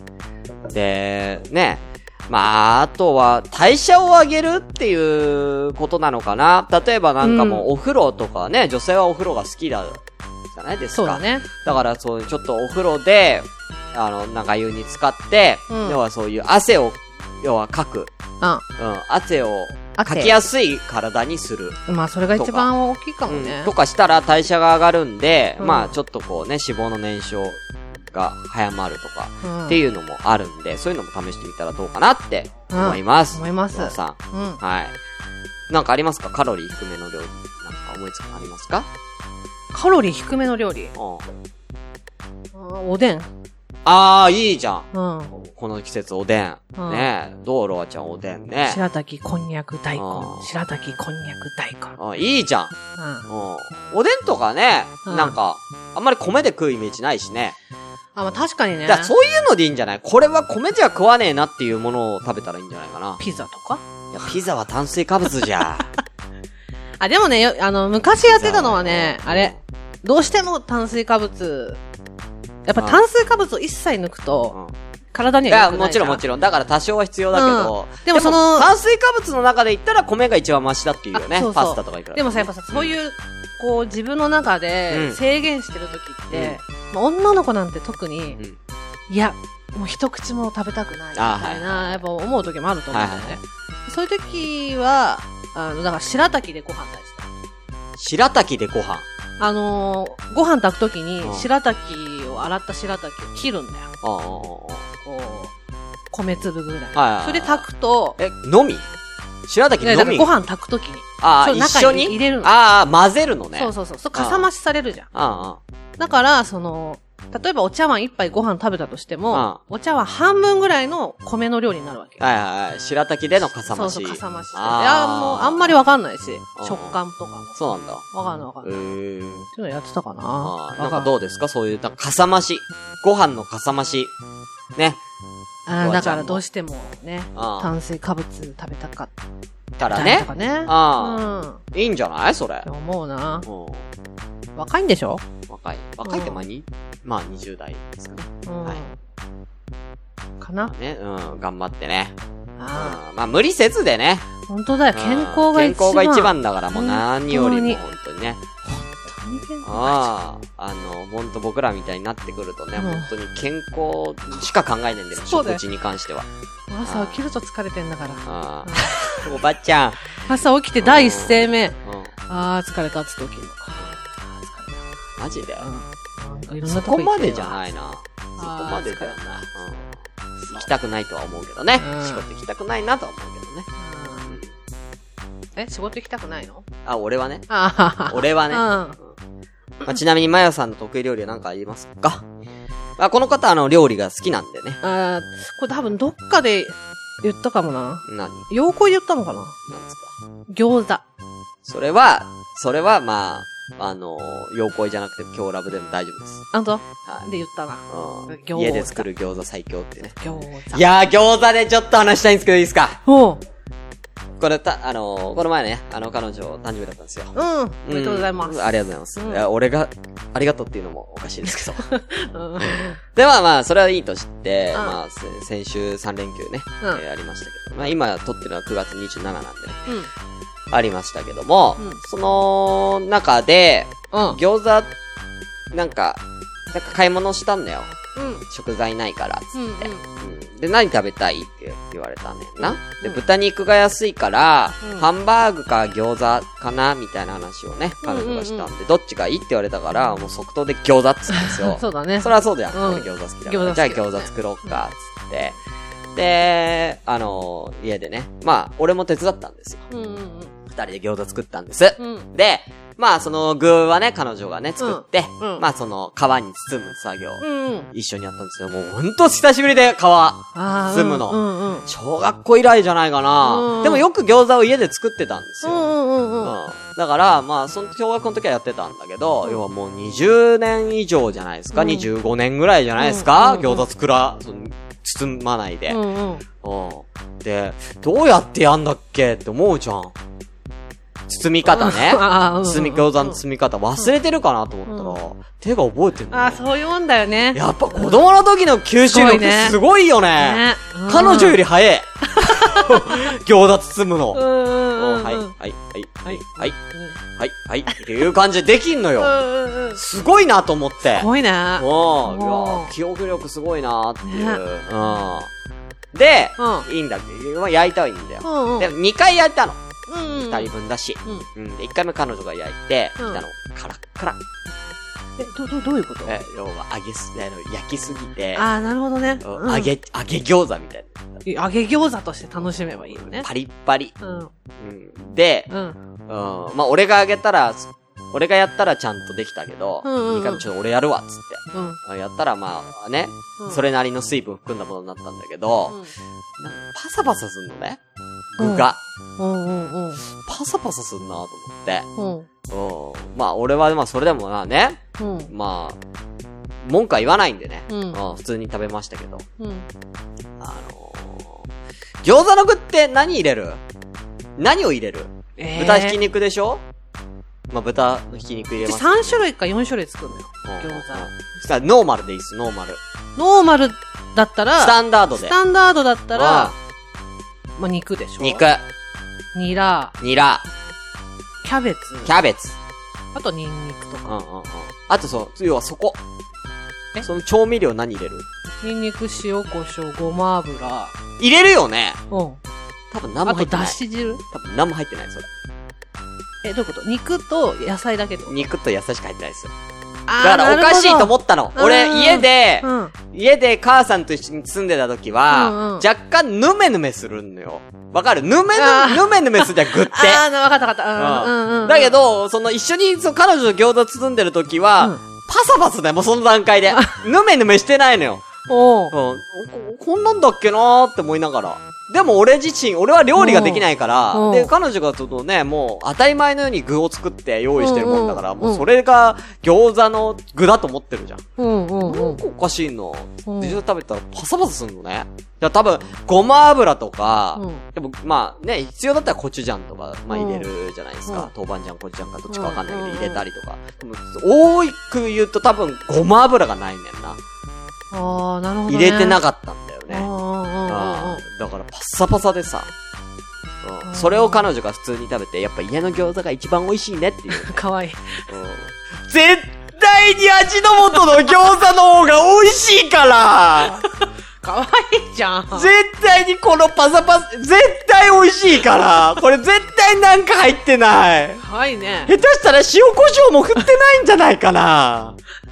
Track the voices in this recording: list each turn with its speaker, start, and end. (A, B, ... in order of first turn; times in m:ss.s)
0:00.7-0:10.0 A
0:07.2-0:07.6 B
0:10.5-0:18.1 A
0:10.9-0:11.5 B
0:15.7-0:16.0 B
0:18.8-0:21.8 A
0:20.0-0:20.4 B
0:21.9-0:23.7 B
0:22.4-0:22.7 A
0:23.3-0:34.9 A
0:25.6-0:25.9 B
0:29.4-0:29.8 B
0:32.7-0:34.6 B
0:35.7-0:38.9 A
0:39.7-0:40.9 B
0:41.0-0:41.3 A
0:42.5-0:43.3 B
0:43.8-0:48.8 A
0:44.9-0:45.3 B
0:46.8-0:47.1 B
0:48.7-0:52.0 B
0:49.9-0:50.5 A
0:52.0-0:52.7 A
0:53.0-0:53.3 B
0:53.3-0:57.6 A
0:55.0-0:55.4 B
0:58.2-0:59.1 B
0:58.9-1:03.2 A
1:03.2-1:03.8 B
1:04.1-1:05.9 A
1:07.0-1:11.8 B
1:08.2-1:09.6 A
1:12.7-1:14.6 B
1:12.8-1:13.0 A
1:15.1-1:16.2 B
1:15.5-1:22.9 A
1:17.3-1:18.7 B
1:21.1-1:28.4 B
1:24.9-1:25.2 A
1:26.3-1:26.6 A
1:29.1-1:37.3 B
1:31.1-1:32.0 A
1:32.9-1:33.4 A
1:38.0-1:39.1 A
1:39.4-1:43.9 B
1:41.2-1:41.5 A
1:44.0-1:44.9 A
1:45.0-1:45.5 B
1:46.1-1:48.2 B
1:46.9-1:47.6 A
1:48.2-1:48.9 A
1:49.5-1:50.3 A
1:49.8-1:52.5 B
1:51.2-1:54.5 A
1:53.6-1:55.1 B
1:55.1-1:55.6 A
1:56.0-2:02.2 B
1:59.3-1:59.6 A
2:02.2-2:05.8 A
2:03.7-2:08.8 B
2:06.6-2:07.0 A
2:07.6-2:08.0 A
2:08.6-2:09.5 A
2:09.5-2:11.1 B
2:10.4-2:14.1 A
2:14.7-2:15.0 A
2:15.7-2:19.1 B
2:15.8-2:16.4 A
2:17.4-2:17.7 A
2:19.8-2:22.7 A
2:19.8-2:21.6 B
2:22.6-2:23.4 B
2:23.4-2:23.8 A
2:24.6-2:25.2 B
2:25.5-2:28.8 A
2:26.0-2:26.4 B
2:28.4-2:29.0 B
2:30.4-2:30.7 B
2:30.6-2:32.2 A
2:32.6-2:33.0 B
2:32.7-2:34.3 A
2:34.5-2:37.8 B
2:34.9-2:38.4 A
2:38.6-2:40.1 B
2:39.6-2:46.3 A
2:42.8-2:43.1 B
2:45.2-2:45.6 B
2:46.7-2:49.3 B
2:46.8-2:47.2 A
2:48.2-2:50.1 A
2:50.2-2:51.8 B
2:50.8-2:52.1 A
2:52.3-2:54.9 B
2:55.2-2:55.7 A
2:55.6-2:57.6 B
2:56.6-2:59.9 A
2:58.4-2:59.2 B
3:00.4-3:00.6 B
3:00.5-3:03.7 A
3:01.8-3:02.2 B
3:03.8-3:04.3 B
3:05.6-3:06.6 B
3:06.8-3:07.5 A
3:07.5-3:09.0 B
3:08.1-3:09.1 A
3:09.8-3:12.2 A
3:13.0-3:14.8 A
3:14.8-3:19.6 B
3:18.0-3:18.5 A
3:19.7-3:20.1 A
3:20.5-3:21.0 B
3:21.6-3:26.4 A
3:26.5-3:29.1 B
3:27.9-3:30.1 A
3:30.1-3:30.8 B
3:30.7-3:33.0 A
3:33.1-3:33.4 B
3:34.4-3:37.3 A
3:37.4-3:39.4 B
3:37.8-3:41.8 A
3:41.6-3:43.0 B
3:42.6-3:49.8 A
3:50.7-3:54.9 A
3:54.1-3:54.4 B
3:55.7-3:57.9 A
3:58.1-3:58.4 B
3:58.5-4:15.6 A
3:59.5-4:00.1 B
4:02.6-4:03.2 B
4:04.8-4:05.1 B
4:08.0-4:08.7 B
4:11.4-4:14.8 B
4:16.1-4:19.8 A
4:19.9-4:20.5 B
4:20.7-4:35.9 A
4:22.0-4:22.3 B
4:24.8-4:25.6 B
4:27.4-4:27.9 B
4:30.6-4:31.9 B
4:33.4-4:34.1 B
4:35.6-4:36.6 B
4:36.4-4:46.0 A
4:41.7-4:42.1 B
4:43.0-4:43.8 B
4:45.9-4:46.4 B
4:46.6-4:50.1 A
4:51.3-4:56.6 A
4:51.6-4:53.4 B
4:54.9-4:55.2 B
4:56.3-4:58.2 B
4:57.5-5:06.8 A
4:59.1-4:59.8 B
5:00.4-5:01.6 B
5:02.3-5:03.2 B
5:04.3-5:05.5 B
5:06.2-5:07.2 B
5:07.4-5:09.4 A
5:09.2-5:10.0 B
5:09.9-5:15.5 A
5:11.1-5:12.9 B
5:14.2-5:14.6 B
5:16.1-5:19.8 A
5:16.6-5:16.9 B
5:18.4-5:18.9 B
5:20.1-5:20.7 B
5:20.5-5:24.4 A
5:25.4-5:26.4 B
5:26.2-5:28.7 A
5:28.6-5:29.9 B
5:29.4-5:31.4 A
5:31.4-5:33.5 B
5:32.6-5:34.1 A
5:34.2-5:34.5 B
5:34.8-5:35.7 A
5:35.7-5:36.0 B
5:36.3-5:46.0 A
5:40.0-5:40.6 B
5:41.7-5:42.0 B
5:43.6-5:43.8 B
5:46.6-5:48.0 A
5:48.6-5:49.0 A
5:48.6-5:50.2 B
5:50.4-5:52.1 A
5:52.2-5:52.5 B
5:52.7-5:56.0 A
5:55.2-5:55.5 B
5:56.8-5:59.4 A
5:57.9-5:58.2 B
5:59.6-5:59.9 B
6:00.6-6:01.6 A
6:02.2-6:03.8 A
6:04.6-6:06.8 A
6:05.6-6:06.2 B
6:07.7-6:09.3 A
6:08.8-6:11.3 B
6:10.6-6:13.0 A
6:13.4-6:16.8 B
6:14.8-6:15.6 A
6:16.4-6:16.7 A
6:17.8-6:18.6 B
6:18.4-6:18.8 A
6:19.5-6:20.1 B
6:20.2-6:20.6 A
6:21.6-6:22.3 B
6:22.2-6:22.8 A
6:23.4-6:24.4 B
6:24.3-6:26.2 A
6:27.2-6:28.4 A
6:28.8-6:31.2 B
6:31.4-6:32.2 A
6:32.3-6:32.6 B
6:33.1-6:34.0 A
6:33.4-6:34.4 B
6:34.5-6:35.5 A
6:36.6-6:38.7 B
6:38.5-6:39.7 A
6:40.3-6:43.1 B
6:40.4-6:50.5 A
6:45.5-6:46.1 B
6:48.7-6:52.2 B
6:51.1-6:58.4 A
6:56.9-6:57.2 B
6:58.7-6:59.1 B
6:59.1-7:11.4 A
7:03.4-7:04.7 B
7:07.8-7:08.8 B
7:11.6-7:12.4 B
7:12.0-7:27.4 A
7:13.4-7:13.8 B
7:17.6-7:17.8 B
7:20.3-7:20.6 B
7:22.5-7:23.4 B
7:28.1-7:29.4 B
7:28.9-7:30.3 A
7:30.1-7:31.4 B
7:30.8-7:32.9 A
7:33.8-7:37.8 A
7:34.0-7:34.7 B
7:37.5-7:38.5 B
7:38.5-7:44.0 A
7:43.8-7:45.9 B
7:45.7-7:51.6 A
7:51.6-7:52.4 B
7:52.3-7:55.4 A